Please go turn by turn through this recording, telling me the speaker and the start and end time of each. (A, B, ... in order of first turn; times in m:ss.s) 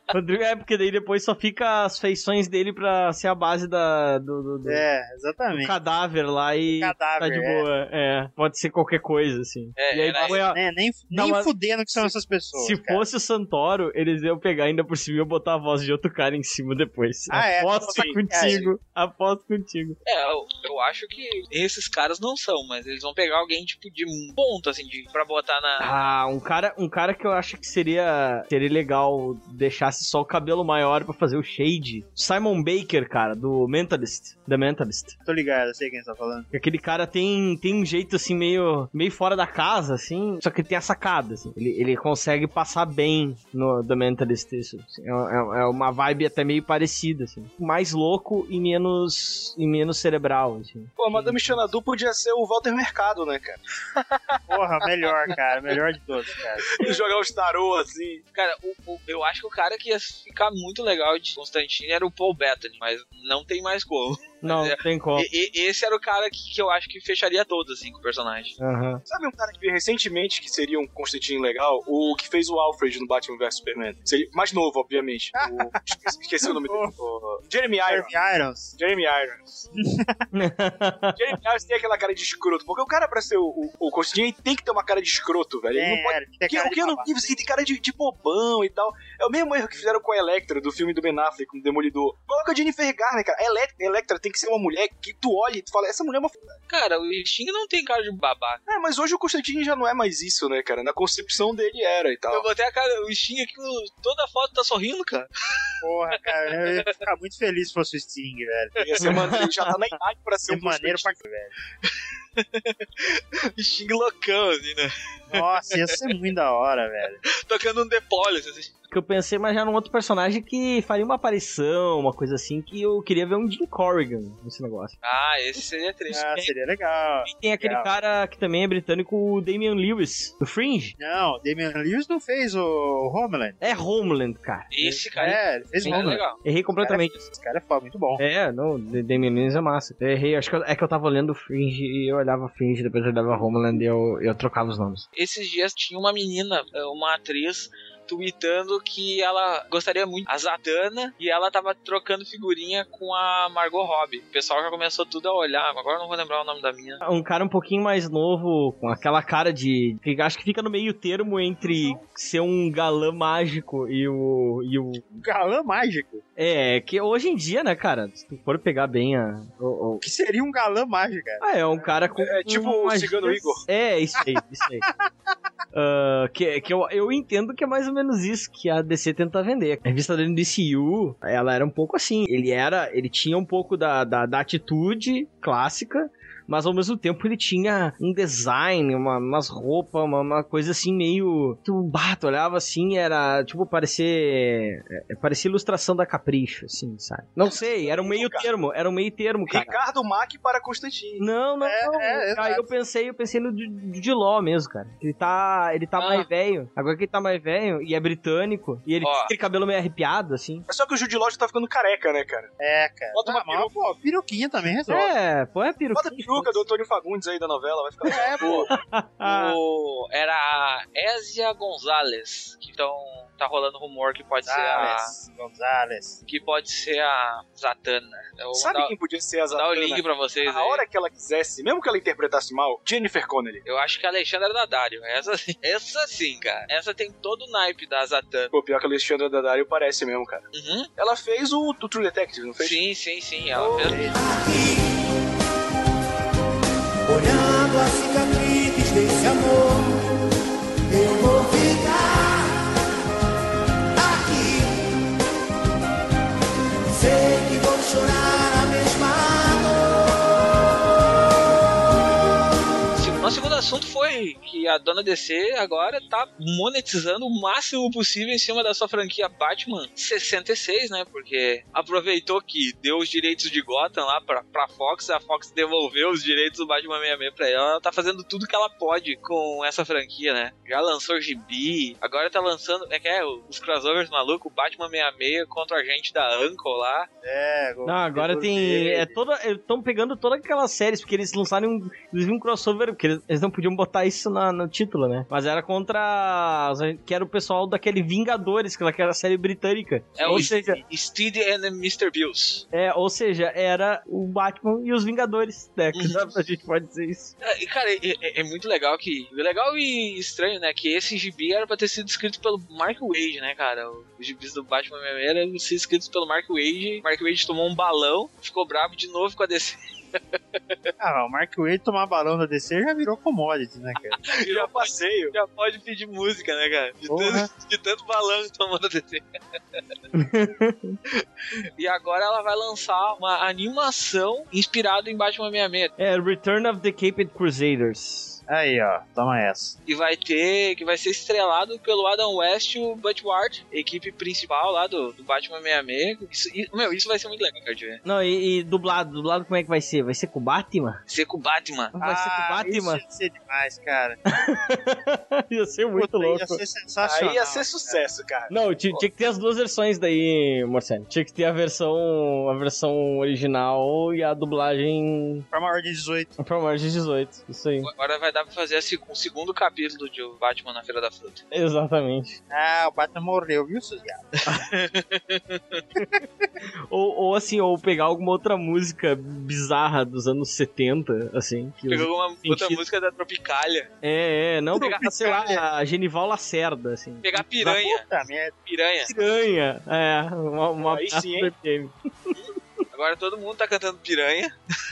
0:00.1-0:04.8 A
0:04.6-0:05.8 B
0:05.6-0:10.6 A
0:06.7-0:07.7 B
0:09.8-0:10.4 C
0:10.2-0:13.0 B
0:11.1-0:20.0 A
0:17.3-0:18.7 B
0:20.0-0:26.0 C
0:25.8-0:35.2 A
0:35.2-0:36.5 B
0:36.5-0:51.7 A
0:51.0-0:54.4 D
0:54.5-0:56.9 B
0:56.6-0:58.2 D
0:58.3-1:08.6 C
1:04.4-1:05.3 A
1:08.6-1:09.0 A
1:09.1-1:18.1 D
1:15.4-1:15.8 B
1:16.4-1:16.9 B
1:17.9-1:18.8 B
1:18.8-1:19.7 D
1:19.8-1:20.3 B
1:20.3-1:21.2 A
1:21.2-1:36.4 D
1:25.7-1:27.1 B
1:36.7-1:38.6 C
1:38.7-1:42.5 D
1:42.3-1:45.7 C
1:45.8-1:49.4 B
1:46.5-1:47.0 C
1:48.8-1:51.2 D
1:49.0-1:49.5 A
1:50.5-1:51.5 B
1:51.8-1:56.1 C
1:55.3-1:57.2 B
1:57.3-1:58.7 C
1:58.9-2:05.0 A
2:05.0-2:06.3 C
2:06.1-2:07.9 B
2:06.1-2:06.5 A
2:07.2-2:11.0 A
2:11.0-2:13.6 B
2:13.6-2:15.1 A
2:14.7-2:16.4 C
2:15.2-2:18.2 B
2:15.8-2:17.1 A
2:18.2-2:25.0 A
2:25.2-2:37.0 C
2:37.0-2:45.0 A
2:45.1-2:46.2 B
2:46.4-2:50.0 A
2:50.0-2:51.8 B
2:51.4-2:54.9 A
2:52.2-2:53.6 D
2:55.7-3:19.8 A
3:17.5-3:18.5 D
3:19.5-3:21.3 D
3:21.2-3:30.6 A
3:21.6-3:22.7 B
3:26.0-3:26.3 C
3:29.0-3:29.3 C
3:30.7-3:32.5 D
3:32.6-3:35.1 B
3:33.1-3:33.8 D
3:34.9-3:36.6 A
3:35.9-3:38.7 D
3:38.0-3:38.7 B
3:38.7-3:39.6 A
3:39.2-3:45.1 C
3:44.4-3:46.2 B
3:46.3-3:48.9 C
3:48.5-3:53.6 D
3:49.5-3:50.8 C
3:53.6-3:58.5 C
3:58.5-4:00.5 D
4:00.5-4:00.9 C
4:01.0-4:02.8 D
4:02.6-4:04.1 C
4:03.8-4:04.1 B
4:04.2-4:04.8 E
4:07.1-4:10.1 E
4:10.9-4:12.5 E
4:14.0-4:14.8 E
4:16.9-4:19.8 E
4:22.9-4:47.1 C
4:47.2-4:49.2 B
4:47.8-5:00.8 A
5:00.2-5:02.6 C
5:02.7-5:07.3 A
5:05.9-5:06.3 C
5:07.4-5:20.9 C
5:21.0-5:24.2 B
5:24.2-5:29.2 C
5:24.3-5:25.4 D
5:27.1-5:27.5 B
5:30.1-5:31.0 A
5:31.8-5:35.9 C
5:36.0-5:38.4 A
5:38.5-5:39.8 B
5:39.9-5:48.0 C
5:48.0-5:51.0 A
5:51.1-5:51.9 C
5:52.0-5:53.0 A
5:52.0-5:54.2 B
5:54.3-5:56.6 A
5:56.0-5:58.0 B
5:57.0-5:59.0 D
5:58.5-6:05.5 A
6:05.5-6:06.3 B
6:06.4-6:07.9 A
6:07.8-6:11.4 C
6:11.5-6:12.4 A
6:12.5-6:14.3 B
6:14.5-6:15.8 C
6:16.9-6:22.8 A
6:21.9-6:23.9 C
6:24.0-6:27.8 A
6:24.8-6:25.6 C
6:27.2-6:28.0 C
6:27.7-6:28.6 B
6:28.7-6:29.1 C
6:29.0-6:32.4 A
6:30.8-6:31.5 D
6:32.4-6:34.5 C